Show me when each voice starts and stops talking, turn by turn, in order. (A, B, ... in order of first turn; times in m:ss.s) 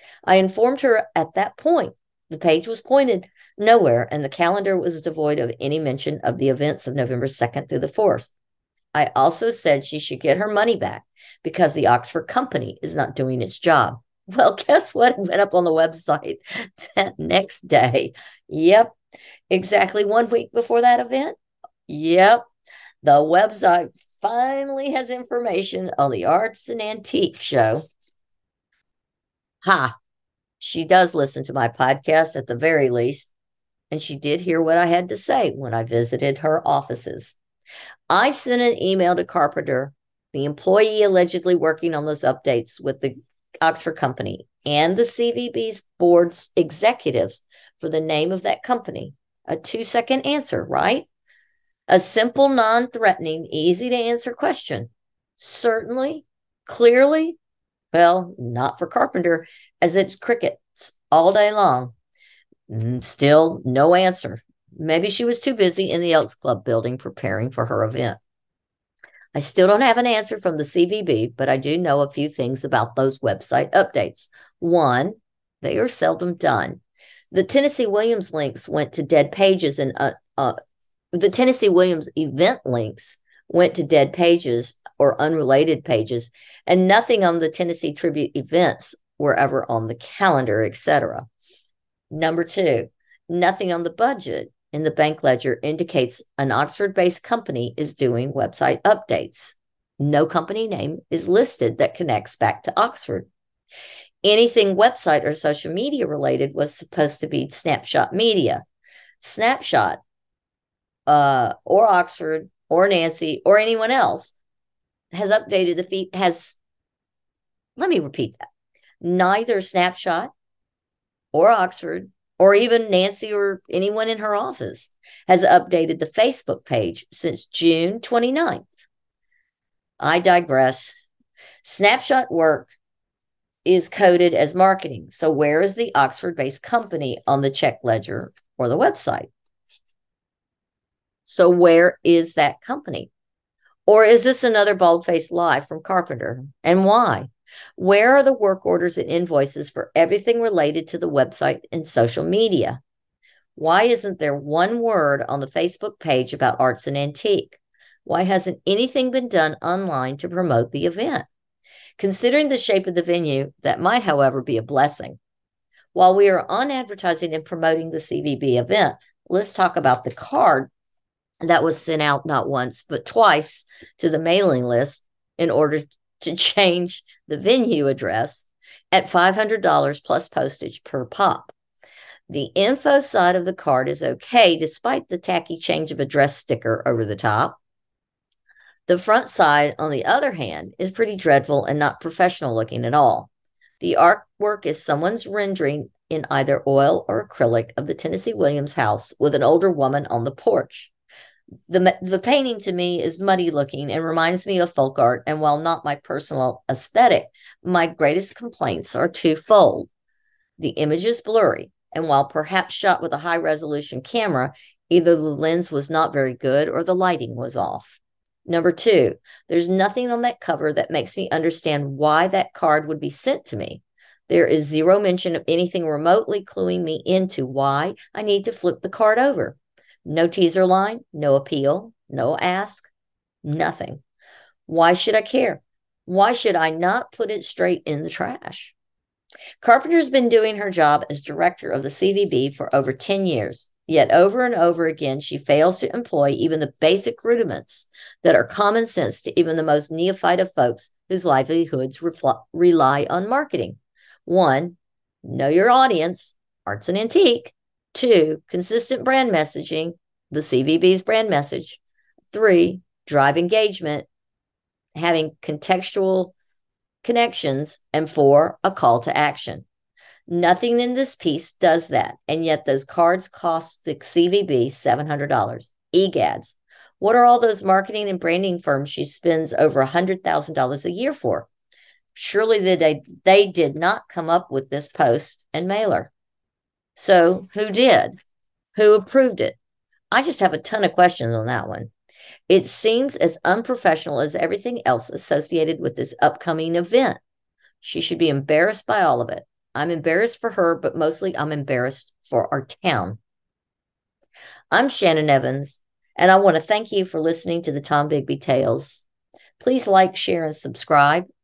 0:00.2-0:08.3 A
0:08.9-0:18.9 A
0:19.5-0:21.4 A
0:21.9-0:22.4 A
0:23.0-0:27.8 A
0:29.6-0:29.9 A
0:30.6-0:33.3 A
0:33.9-0:37.4 A
0:38.1-0:51.1 A
0:51.9-0:57.4 A
0:57.9-1:01.9 A
1:02.7-1:08.2 A
1:09.3-1:16.8 A
1:17.3-1:20.6 A
1:21.1-1:31.3 A
1:32.1-1:43.3 A
1:44.2-1:48.6 A
1:49.2-1:50.0 A
1:51.1-1:54.4 A
1:55.1-1:56.6 A
1:57.8-1:58.4 A
1:59.0-2:00.3 A
2:01.3-2:08.7 A
2:10.0-2:10.9 A
2:11.6-2:12.7 A
2:13.6-2:19.3 A
2:21.2-2:23.1 A
2:23.9-2:32.8 A
2:33.6-2:41.3 A
2:42.0-2:45.2 A
2:45.9-2:50.7 A
2:51.4-3:01.5 A
3:02.3-3:07.6 A
3:08.9-3:20.9 A
3:21.7-3:29.9 A
3:30.6-3:52.9 A
3:53.4-3:54.0 A
3:54.7-3:58.7 A
3:59.6-4:21.8 A
4:22.3-4:24.1 A
4:24.9-4:26.3 A
4:27.0-4:29.6 A
4:30.3-4:41.5 A
4:42.1-4:46.1 A
4:46.9-4:48.2 A
4:48.7-4:49.6 A
4:50.1-4:51.9 A
4:52.5-4:57.2 A
4:57.8-5:03.2 A
5:04.7-5:09.0 A
5:09.6-5:11.3 A